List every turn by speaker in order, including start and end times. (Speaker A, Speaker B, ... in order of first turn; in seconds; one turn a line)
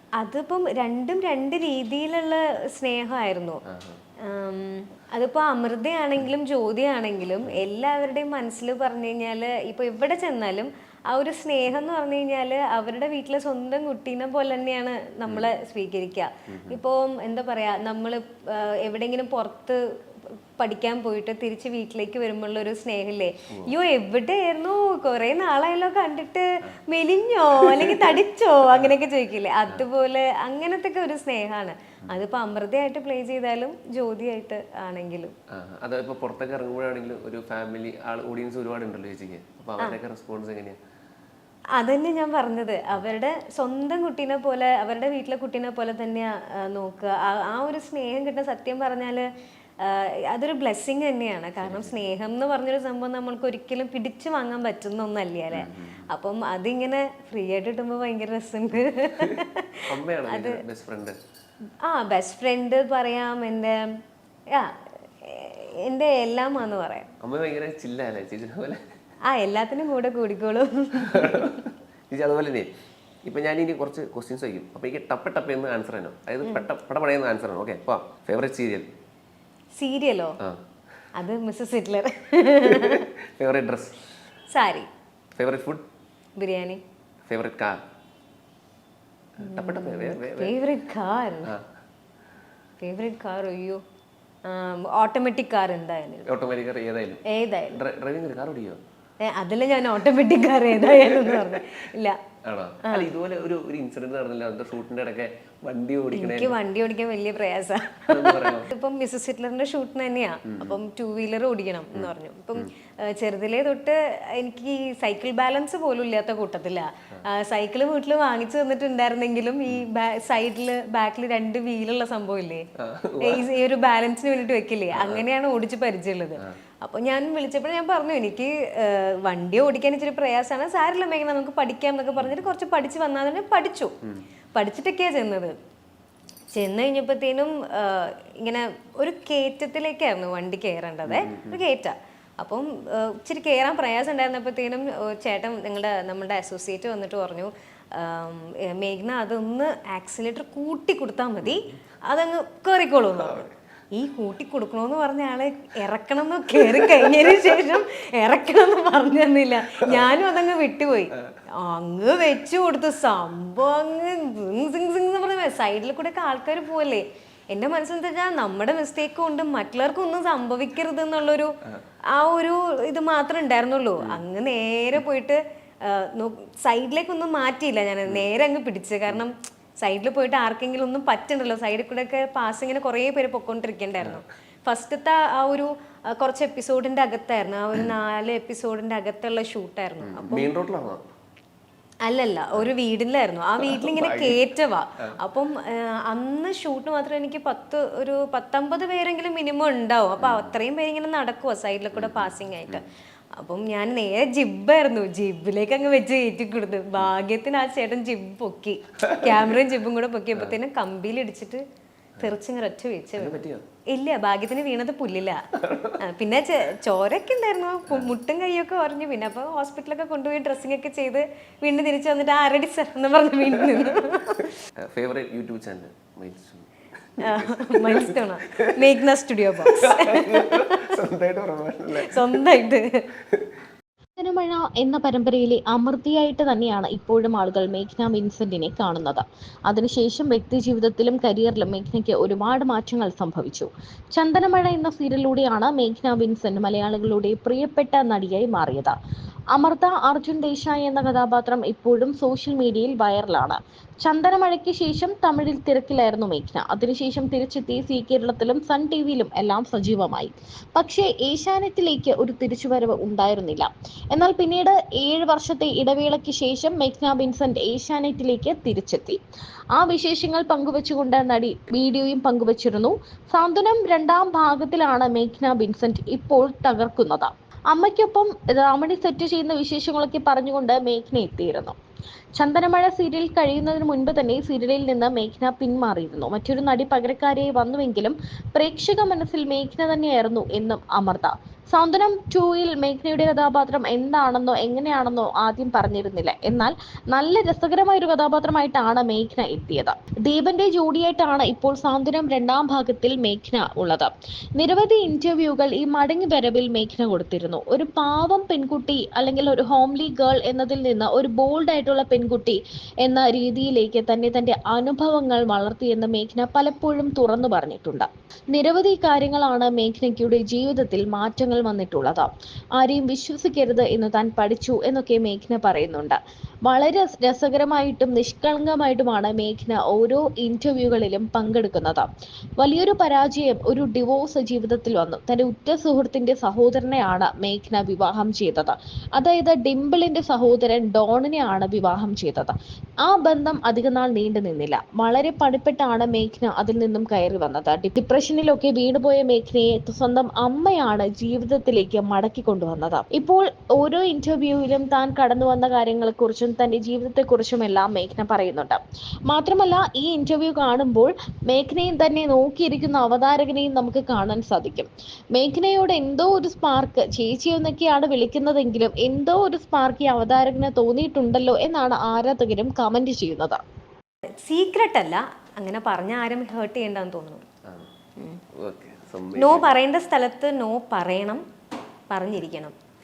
Speaker A: 0.2-3.6
Speaker B: 3.7-4.0
Speaker A: 4.2-19.8
Speaker B: 15.2-15.5
Speaker B: 16.5-16.8
Speaker A: 20.6-35.3
Speaker B: 27.6-28.1
Speaker B: 35.5-40.8
Speaker A: 41.8-49.3
Speaker A: 49.8-60.6
Speaker B: 51.6-52.1
Speaker B: 55.5-56.1
Speaker B: 59.2-61.2
Speaker A: 61.8-63.9
Speaker A: 64.5-67.1
Speaker B: 67.2-68.8
Speaker A: 69.2-71.6
Speaker B: 71.0-72.7
Speaker B: 73.2-78.9
Speaker A: 79.8-80.4
Speaker A: 81.1-83.1
Speaker B: 82.6-84.0
Speaker A: 84.5-84.9
Speaker B: 85.4-85.8
Speaker A: 86.4-86.8
Speaker B: 87.3-87.8
Speaker B: 89.4-90.6
Speaker A: 89.4-91.5
Speaker A: 92.8-93.8
Speaker A: 94.4-96.3
Speaker B: 96.2-98.8
Speaker A: 97.3-97.8
Speaker A: 99.2-102.2
Speaker B: 100.8-101.6
Speaker B: 102.4-106.5
Speaker A: 106.1-122.7
Speaker B: 108.1-108.7
Speaker B: 110.5-110.8
Speaker B: 111.9-112.6
Speaker B: 122.8-123.5
Speaker A: 123.2-133.9
Speaker B: 124.9-125.2
Speaker B: 132.2-132.5
Speaker A: 134.5-135.5
Speaker A: 136.5-171.5
Speaker B: 141.1-141.6
Speaker B: 153.2-153.5
Speaker B: 156.6-157.4
Speaker B: 159.8-160.1
Speaker A: 172.1-190.5
Speaker B: 190.0-191.0
Speaker A: 192.0-211.6
Speaker B: 193.6-194.4
Speaker B: 200.2-200.6
Speaker B: 201.9-202.8
Speaker B: 209.0-209.6
Speaker A: 212.2-224.5
Speaker B: 213.1-213.6
Speaker B: 215.6-216.0
Speaker B: 217.9-218.1
Speaker B: 223.5-224.1
Speaker B: 224.9-228.9
Speaker A: 227.2-230.9
Speaker B: 229.6-232.4
Speaker A: 232.0-233.0
Speaker C: 234.2-248.9
Speaker C: 249.5-269.2
Speaker C: 269.7-281.8
Speaker C: 282.4-373.6
Speaker A: 374.4-377.4
Speaker B: 378.5-379.7
Speaker A: 379.3-381.4
Speaker A: 382.1-382.8